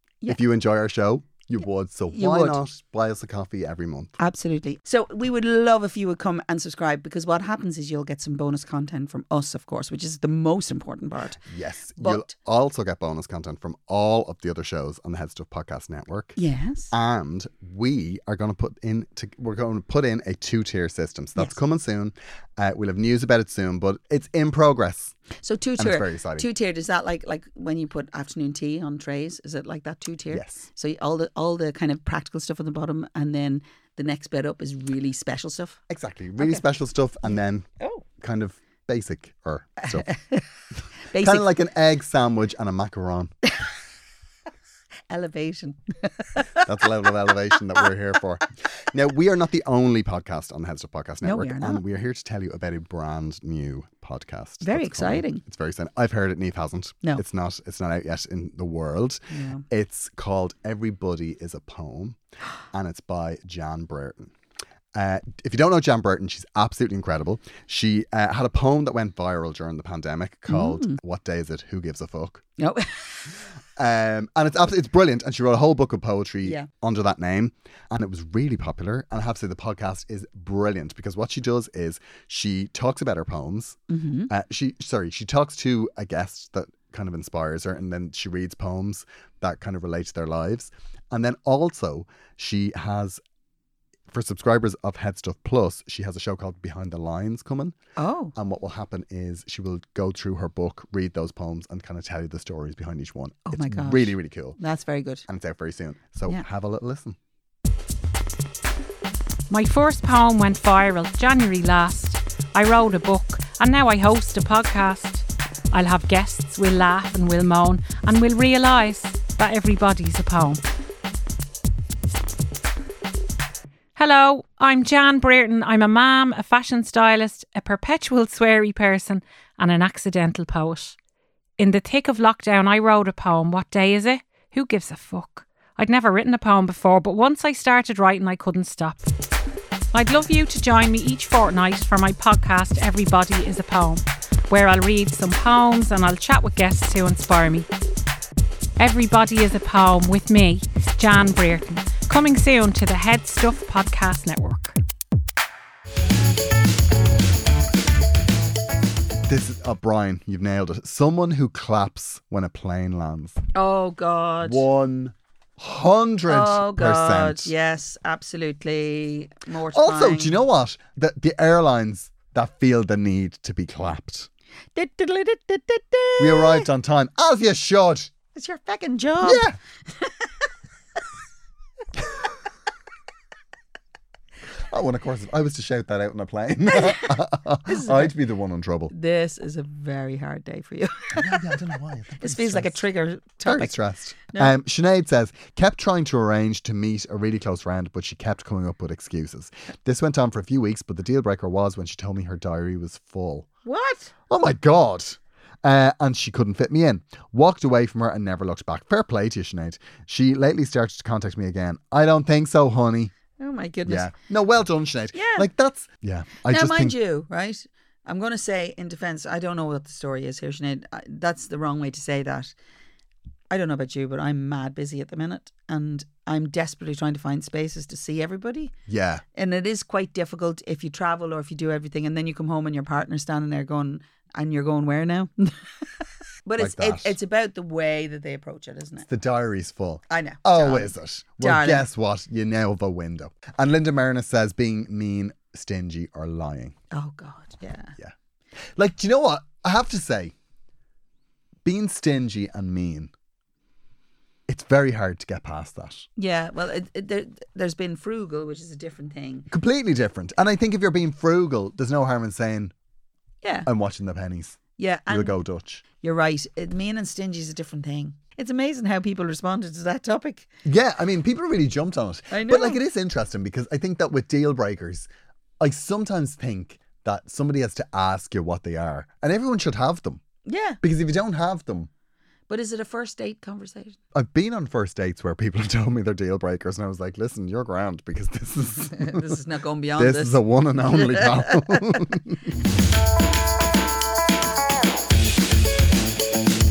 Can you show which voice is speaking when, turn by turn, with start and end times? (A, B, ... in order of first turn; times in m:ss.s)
0:00.3-0:04.2 A
0:02.1-0:02.6 B
0:04.2-0:11.4 B
0:11.4-0:16.4 A
0:12.0-0:12.3 B
0:16.4-0:16.9 B
0:16.9-0:25.2 A
0:25.4-0:35.8 B
0:25.8-0:26.5 A
0:30.3-0:30.7 A
0:35.9-0:40.1 A
0:37.3-0:38.0 B
0:39.9-0:40.4 B
0:41.1-0:41.5 B
0:41.1-0:43.3 A
0:45.1-0:46.6 B
0:46.6-1:02.2 A
0:51.2-0:51.8 B
0:54.6-0:55.4 B
0:59.3-0:59.6 B
1:02.7-1:04.3 A
1:04.9-1:12.4 A
1:10.5-1:11.0 B
1:12.6-1:13.3 B
1:13.8-1:33.2 A
1:23.9-1:24.3 B
1:34.1-1:37.8 A
1:38.0-1:38.3 B
1:38.3-1:44.6 A
1:43.4-1:45.2 B
1:45.3-1:47.2 A
1:49.5-2:00.6 C
2:04.0-2:11.0 C
2:11.6-2:19.1 C
2:19.9-2:27.7 C
2:28.8-2:34.7 C
2:39.2-2:43.4 A
2:43.5-2:44.6 B
2:44.4-2:47.5 A
2:46.3-2:50.4 B
2:49.7-2:54.3 A
2:54.7-2:56.6 B
2:56.2-2:58.1 A
2:58.3-2:59.4 B
2:59.2-2:59.6 A
3:04.7-3:08.9 A
3:06.7-3:07.1 B
3:07.7-3:08.1 B
3:08.9-3:11.6 B
3:11.1-3:12.8 A
3:12.2-3:13.8 B
3:13.4-3:23.5 A
3:23.6-3:24.1 B
3:24.3-3:33.1 A
3:33.4-3:34.1 B
3:33.8-3:37.0 A
3:35.1-3:35.5 B
3:36.4-3:42.5 B
3:43.5-3:48.7 B
3:48.9-3:49.2 A
3:49.3-3:55.6 B
3:56.4-3:59.1 B
3:56.6-3:57.1 A
3:59.0-4:06.8 A
4:00.1-4:01.9 B
4:06.9-4:07.9 B
4:08.8-4:10.3 A
4:11.6-4:13.1 A
4:14.5-4:16.1 A
4:16.2-4:19.5 B
4:19.5-4:22.7 A
4:23.4-4:23.7 B
4:23.6-4:25.8 A
4:24.8-4:25.4 B
4:26.0-4:30.5 B
4:30.6-4:35.1 A
4:32.3-4:32.8 B
4:35.6-4:40.2 A
4:40.4-4:40.8 B
4:40.8-4:41.9 A
4:42.5-4:44.0 B
4:44.1-4:49.4 A
4:48.9-4:52.0 B
4:50.0-4:52.4 A